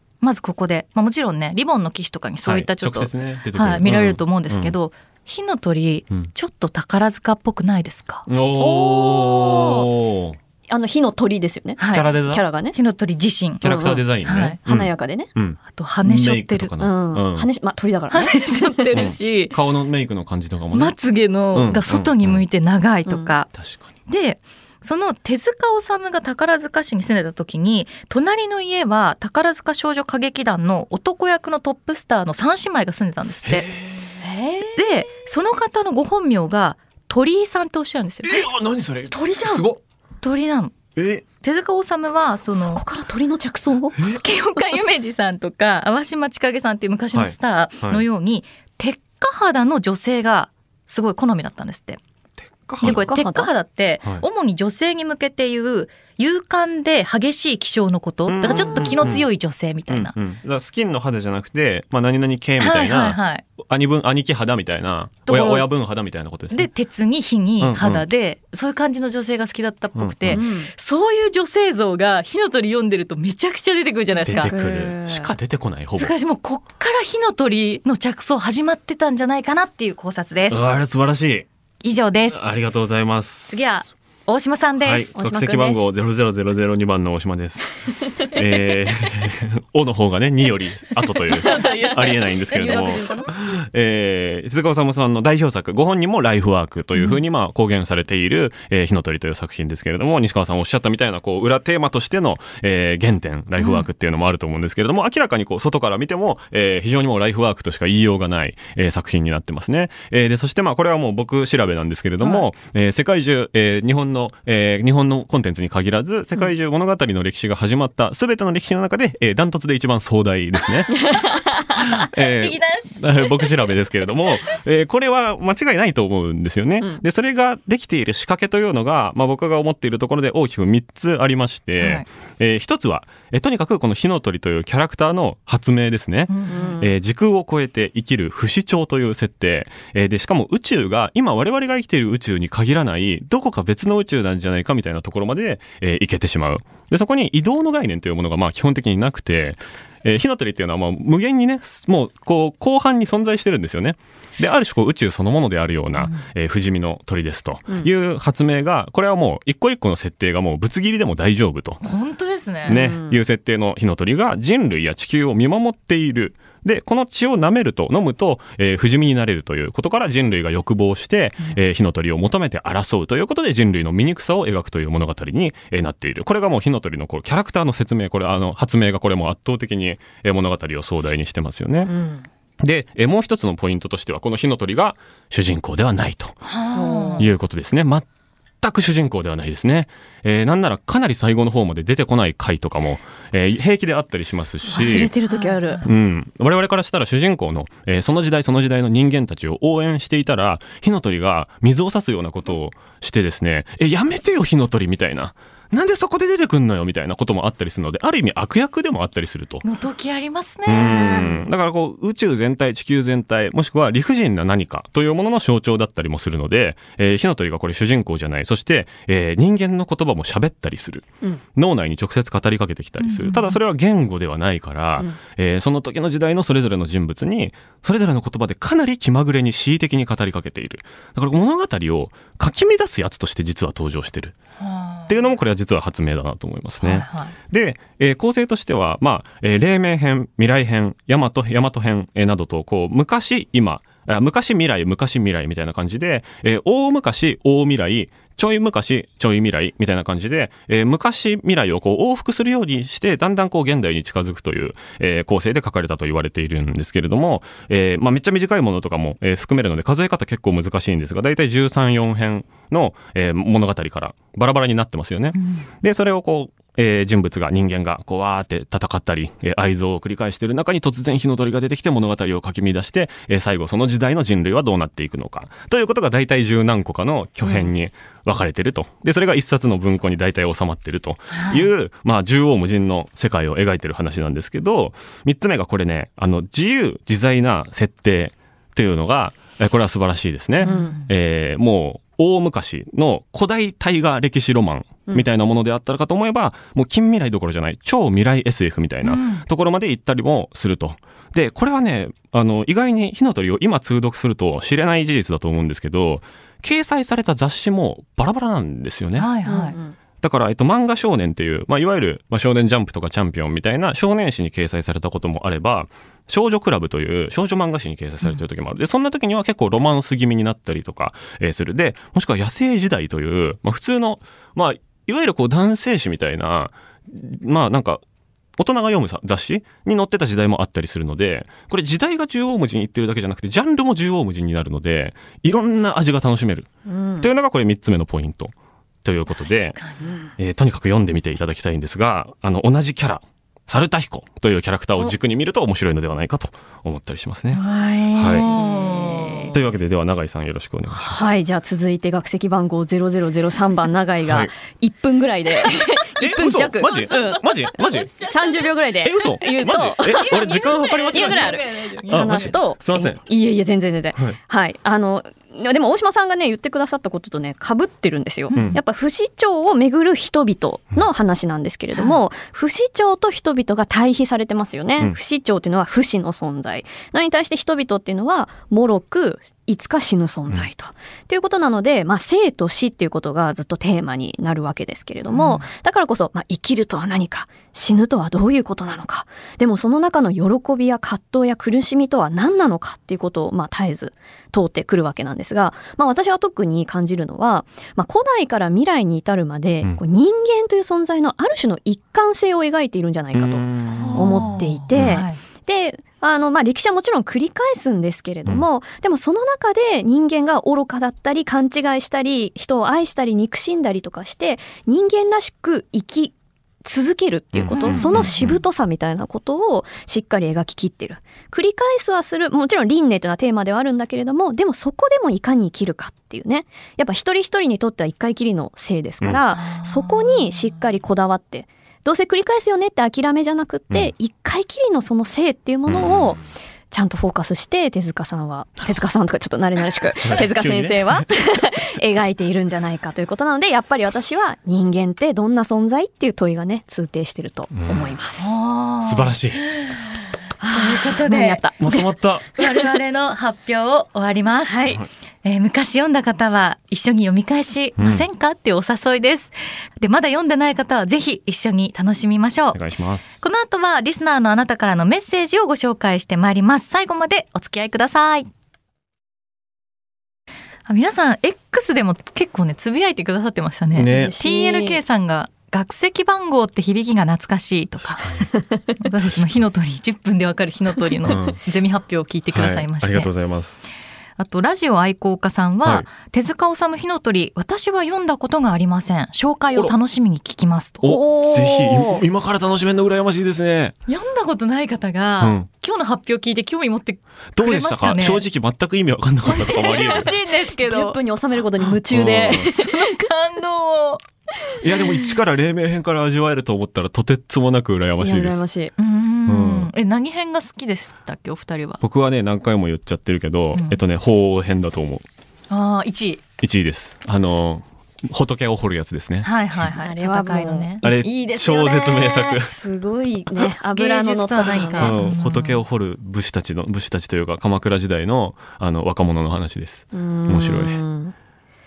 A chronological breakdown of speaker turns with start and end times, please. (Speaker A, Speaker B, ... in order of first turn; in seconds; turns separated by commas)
Speaker A: 0.2-8.3, Speaker B: 2.4-4.8, Speaker B: 8.3-10.4, Speaker C: 8.6-9.9, Speaker C: 10.7-12.8, Speaker A: 11.8-12.1, Speaker B: 11.9-12.4, Speaker A: 12.7-13.7, Speaker B: 13.6-17.5, Speaker C: 13.6-15.3, Speaker A: 14.2-14.6, Speaker A: 15.7-16.7, Speaker C: 16.8-19.0, Speaker A: 18.1-19.6, Speaker B: 18.9-21.0, Speaker A: 20.7-23.5, Speaker B: 21.5-22.4, Speaker C: 23.1-23.3, Speaker B: 23.5-23.9, Speaker A: 24.1-33.7, Speaker B: 33.4-34.1, Speaker C: 34.2-35.0, Speaker A: 34.8-38.5, Speaker B: 38.2-39.8, Speaker C: 39.1-39.7, Speaker A: 40.2-40.8, Speaker B: 41.0-41.2, Speaker A: 41.4-42.8, Speaker C: 42.5-44.2, Speaker B: 44.0-44.2, Speaker A: 44.0-52.0, Speaker B: 47.1-48.0, Speaker B: 52.4-53.0, Speaker A: 52.8-60.1, Speaker C: 52.8-53.5, Speaker B: 58.3-59.2, Speaker C: 58.5-59.2, Speaker B: 59.9-66.7, Speaker A: 62.6-63.5, Speaker A: 65.3-65.7, Speaker A: 66.5-74.5, Speaker B: 67.6-68.1, Speaker B: 69.9-70.4, Speaker C: 70.3-70.7, Speaker B: 74.2-76.1, Speaker C: 74.3-75.3, Speaker A: 76.0-80.6, Speaker B: 80.5-81.5, Speaker A: 81.8-82.4, Speaker B: 82.3-83.8, Speaker A: 83.5-85.1, Speaker B: 84.8-87.8, Speaker C: 85.1-85.9, Speaker C: 87.8-88.4, Speaker B: 88.3-121.0, Speaker A: 91.3-93.3, Speaker C: 91.3-93.3, Speaker C: 112.2-112.5, Speaker C: 121.1-121.5, Speaker B: 121.7-161.8, Speaker A: 122.1-123.6, Speaker A: 131.8-132.1, Speaker A: 136.3-136.8, Speaker C: 136.5-136.9, Speaker A: 161.8-162.9, Speaker B: 162.7-181.9, Speaker C: 162.7-163.2, Speaker C: 181.9-182.2, Speaker B: 182.6-186.4, Speaker A: 186.4-187.3, Speaker C: 186.7-187.3, Speaker B: 187.2-188.1, Speaker B: 188.6-195.1, Speaker C: 194.7-195.8, Speaker A: 195.2-195.9, Speaker B: 195.8-209.7, Speaker A: 209.6-211.4, Speaker B: 210.7-221.1, Speaker C: 210.9-211.4, Speaker B: 221.6-234.3, Speaker A: 223.0-223.6, Speaker A: 234.6-235.2, Speaker B: 235.1-309.3, Speaker A: 236.8-237.3, Speaker A: 265.3-265.7, Speaker C: 277.4-277.7, Speaker A: 281.3-281.7, Speaker A: 290.6-291.1, Speaker C: 290.7-290.9, Speaker A: 299.0-299.4, Speaker A: 309.1-309.8, Speaker C: 309.5-309.9, Speaker B: 310.2-328.0, Speaker B: 328.6-339.8, Speaker C: 336.9-337.3, Speaker A: 339.4-340.1, Speaker B: 340.4-347.6, Speaker C: 347.5-349.5, Speaker B: 348.1-348.5, Speaker A: 348.2-349.6, Speaker B: 349.4-351.3, Speaker C: 350.9-448.5, Speaker B: 354.2-354.5, Speaker B: 356.2-358.1, Speaker A: 356.8-358.7, Speaker B: 359.0-363.2, Speaker A: 360.0-362.6, Speaker A: 368.5-368.8, Speaker B: 368.5-368.8, Speaker A: 371.9-372.2, Speaker A: 385.3-385.7, Speaker B: 403.3-405.2, Speaker A: 403.9-405.4, Speaker B: 417.5-418.6, Speaker A: 417.7-418.3, Speaker A: 429.5-430.7, Speaker B: 435.9-436.4, Speaker B: 440.2-441.3, Speaker B: 447.7-448.1, Speaker A: 448.4-450.0, Speaker B: 449.0-449.7, Speaker C: 450.6-452.9, Speaker A: 450.7-451.6, Speaker B: 451.8-452.5, Speaker A: 452.5-462.8, Speaker C: 454.6-455.1, Speaker B: 458.0-458.3, Speaker B: 462.7-463.3, Speaker A: 463.4-468.5, Speaker A: 470.9-478.4, Speaker B: 473.9-474.4, Speaker C: 474.1-475.0, Speaker B: 478.2-478.5, Speaker A: 479.0-483.3, Speaker B: 481.2-481.6, Speaker B: 482.5-483.8, Speaker A: 484.4-491.0, Speaker B: 491.0-493.9, Speaker C: 491.0-492.2, Speaker A: 494.1-498.4, Speaker B: 495.4-495.7, Speaker B: 497.5-500.3, Speaker A: 499.4-501.2, Speaker C: 500.1-503.2, Speaker B: 502.0-502.7, Speaker A: 502.6-504.2, Speaker B: 504.8-508.6, Speaker C: 508.2-508.9, Speaker A: 509.0-512.0, Speaker B: 509.5-509.9, Speaker B: 512.0-515.2, Speaker A: 513.7-514.0, Speaker A: 515.7-516.4, Speaker B: 516.6-519.9, Speaker A: 519.4-522.2, Speaker C: 520.0-525.2, Speaker B: 521.0-522.7, Speaker A: 523.9-525.8, Speaker B: 525.0-531.0, Speaker C: 530.1-531.3